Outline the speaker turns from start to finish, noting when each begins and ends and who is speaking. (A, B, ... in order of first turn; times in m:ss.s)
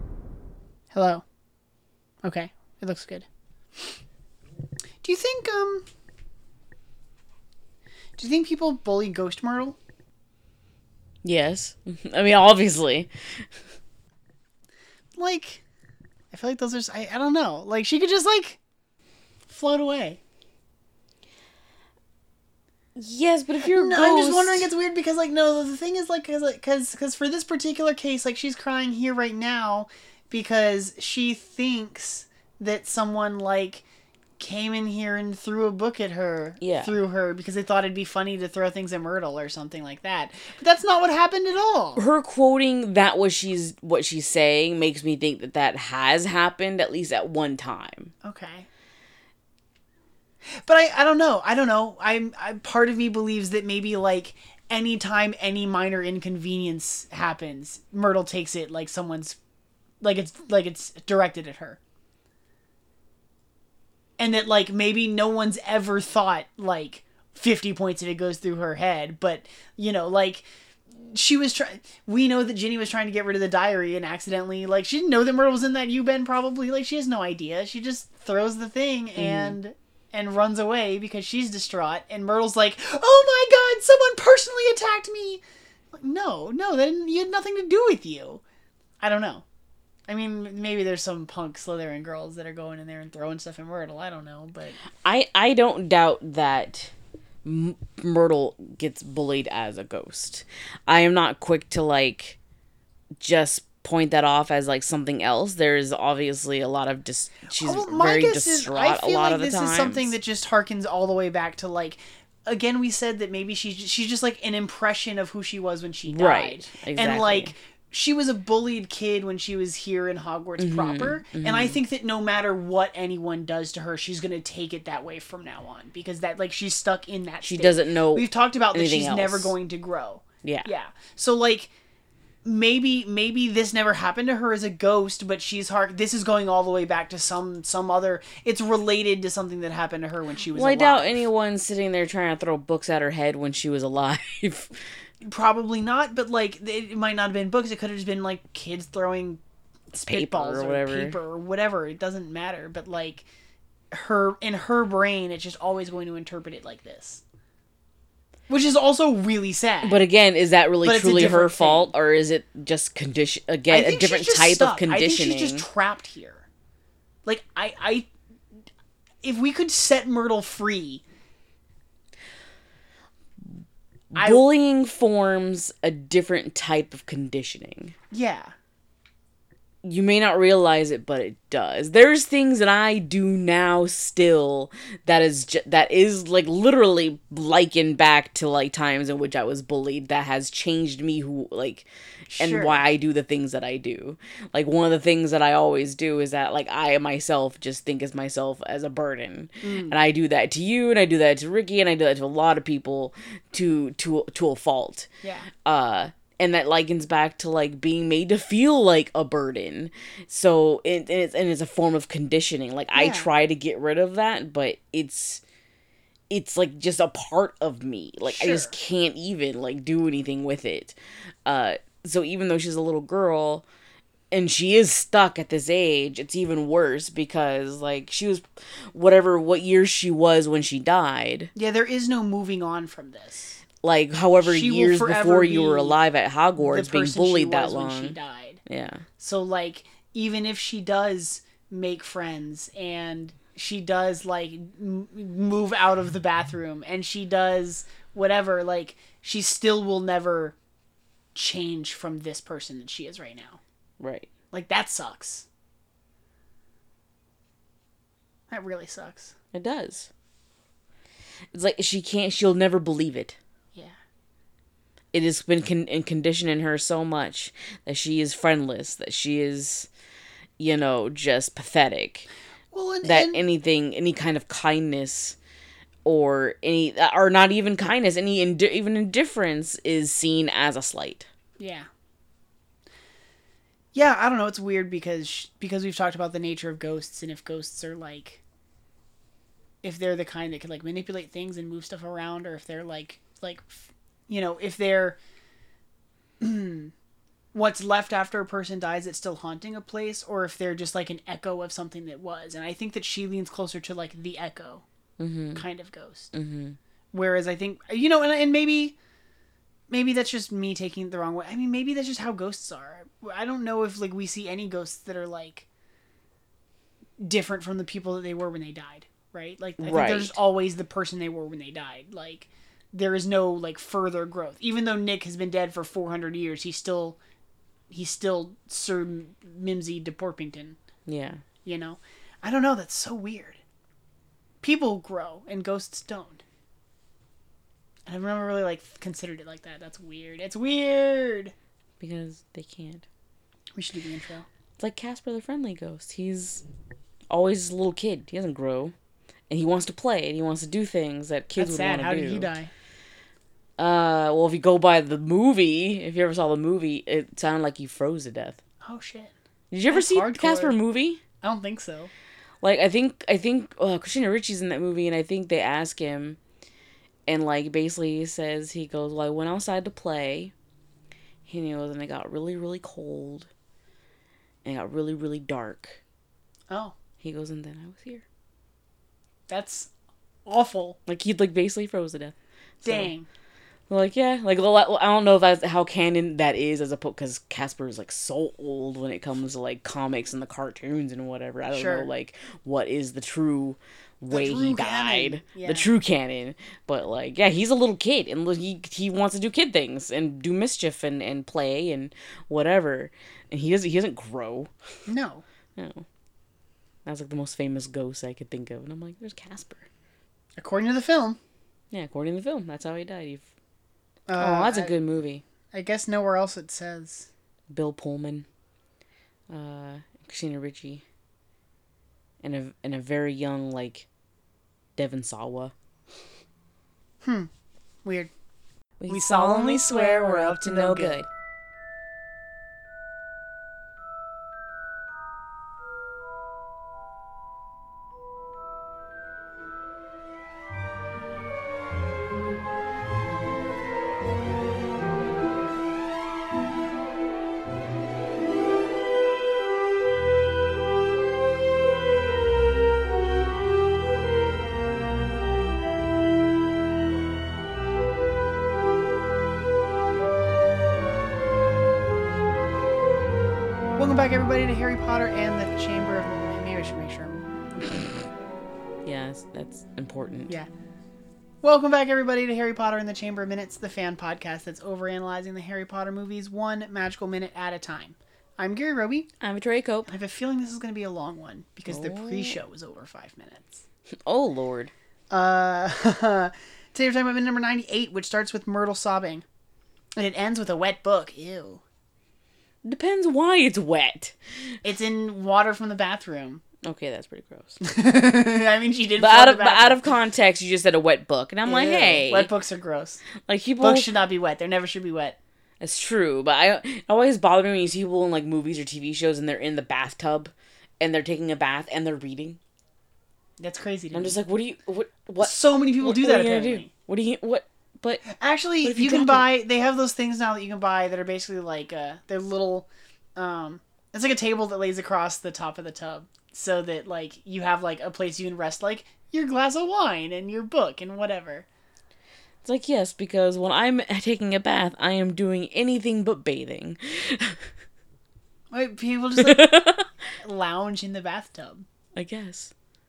0:00.9-0:01.2 A
0:02.2-0:03.3 A
0:05.0-0:05.8 A
0:08.2-0:09.8 A
0:11.2-0:13.4 B
0:15.2-0:15.6 A
0:16.3-0:18.6 A
0:19.5-0:20.2 A
0:23.0-0:24.7 B
0:23.6-0:33.8 A
0:34.4-0:42.0 A
0:36.6-0:37.0 B
0:42.0-0:48.1 B
0:48.2-0:48.7 A
0:50.5-0:59.4 A
1:00.0-1:01.8 A
1:04.2-1:28.4 A
1:19.2-1:19.6 B
1:29.0-1:29.4 A
1:30.1-1:34.8 A
1:35.0-1:36.9 B
1:37.4-1:42.4 B
1:43.2-1:50.1 B
1:47.5-2:11.7 A
1:56.1-1:57.5 B
2:00.6-2:01.8 B
2:07.4-2:09.5 B
2:10.4-2:10.7 B
2:12.4-2:21.3 A
2:20.5-2:24.7 B
2:25.2-2:29.4 A
2:29.9-2:31.2 B
2:29.9-2:33.3 A
2:33.9-2:37.2 A
2:38.5-2:40.0 A
2:39.8-2:45.7 B
2:40.8-2:41.9 A
2:43.7-2:46.5 A
2:47.2-2:48.1 A
2:49.2-2:51.0 A
2:54.1-2:58.0 B
2:54.2-2:54.4 A
2:58.1-2:58.5 A
2:59.8-3:11.9 B
3:12.3-3:12.8 A
3:12.4-3:25.1 B
3:19.6-3:20.0 A
3:25.2-3:25.5 A
3:25.6-3:35.4 B
3:32.9-3:33.3 A
3:36.3-3:43.6 B
3:38.3-3:38.7 A
3:44.3-3:51.5 B
3:51.6-3:53.6 A
3:53.8-3:59.1 B
3:54.4-3:56.0 A
3:56.6-3:58.6 A
3:59.2-4:10.6 A
4:11.4-4:13.6 A
4:14.0-4:14.3 B
4:14.5-4:15.5 A
4:18.5-4:19.4 A
4:19.5-4:20.1 B
4:21.5-4:23.4 B
4:25.1-4:29.9 B
4:30.6-4:32.3 B
4:32.7-4:33.4 A
4:33.0-4:35.4 B
4:36.0-4:41.3 B
4:41.6-4:41.9 A
4:43.9-4:48.4 A
4:49.8-4:55.2 A
4:56.4-4:56.9 A
4:57.5-5:04.8 A
5:05.2-5:05.6 B
5:05.6-5:06.3 A
5:06.3-5:06.8 B
5:07.1-5:09.0 A
5:09.9-5:15.7 A
5:17.2-5:27.2 A
5:19.8-5:20.4 B
5:27.9-5:30.8 A
5:31.1-5:31.4 B
5:31.6-5:33.6 A
5:34.6-5:36.4 A
5:38.1-5:41.5 A
5:42.0-5:43.0 B
5:43.7-5:44.5 A
5:44.8-5:46.6 B
5:47.3-5:48.9 B
5:49.5-5:52.5 B
5:51.6-5:52.7 A
5:53.8-5:58.6 B
5:58.8-5:59.3 A
5:59.7-6:01.2 B
5:59.9-6:00.8 A
6:01.4-6:02.1 A
6:02.6-6:06.4 B
6:07.3-6:10.5 B
6:11.4-6:13.5 B
6:14.6-6:16.0 B
6:16.7-6:17.0 A
6:17.2-6:18.2 B
6:19.5-6:19.9 A
6:20.5-6:21.0 A
6:21.1-6:23.1 B
6:22.8-6:23.3 A
6:23.9-6:44.7 B
6:31.7-6:32.1 A
6:34.3-6:35.9 A
6:45.1-6:45.4 A
6:45.8-6:46.1 B
6:47.1-6:49.9 B
6:50.6-6:51.4 A
6:51.9-6:53.5 B
6:54.3-6:54.9 A
6:54.4-6:55.4 B
6:55.7-6:57.3 A
6:57.7-6:58.5 B
6:59.5-7:01.0 B
7:02.4-7:04.1 B
7:05.0-7:05.7 B
7:07.2-7:07.5 A
7:08.0-7:08.3 A
7:09.0-7:11.3 B
7:09.1-7:11.2 A
7:44.0-7:48.2 A
7:49.0-7:50.5 B
7:51.6-7:59.3 A
7:59.4-8:00.1 B
8:00.1-8:03.8 A
8:01.9-8:02.6 B
8:04.3-8:04.9 B
8:05.3-8:09.4 A
8:10.2-8:11.8 A
8:12.8-8:14.8 B
8:14.8-8:16.6 A
8:16.8-8:17.8 B
8:17.8-8:20.1 A
8:19.2-8:22.5 B
8:21.7-8:23.2 A
8:23.4-8:24.1 B
8:23.8-8:25.4 A
8:25.8-8:32.6 B
8:33.6-8:34.4 A
8:34.1-8:38.2 B
8:35.4-8:36.9 A
8:38.3-8:51.7 A
8:38.8-8:39.5 B
8:52.6-8:57.6 B
8:58.7-9:01.9 A
8:59.4-9:00.1 B
9:02.2-9:02.7 B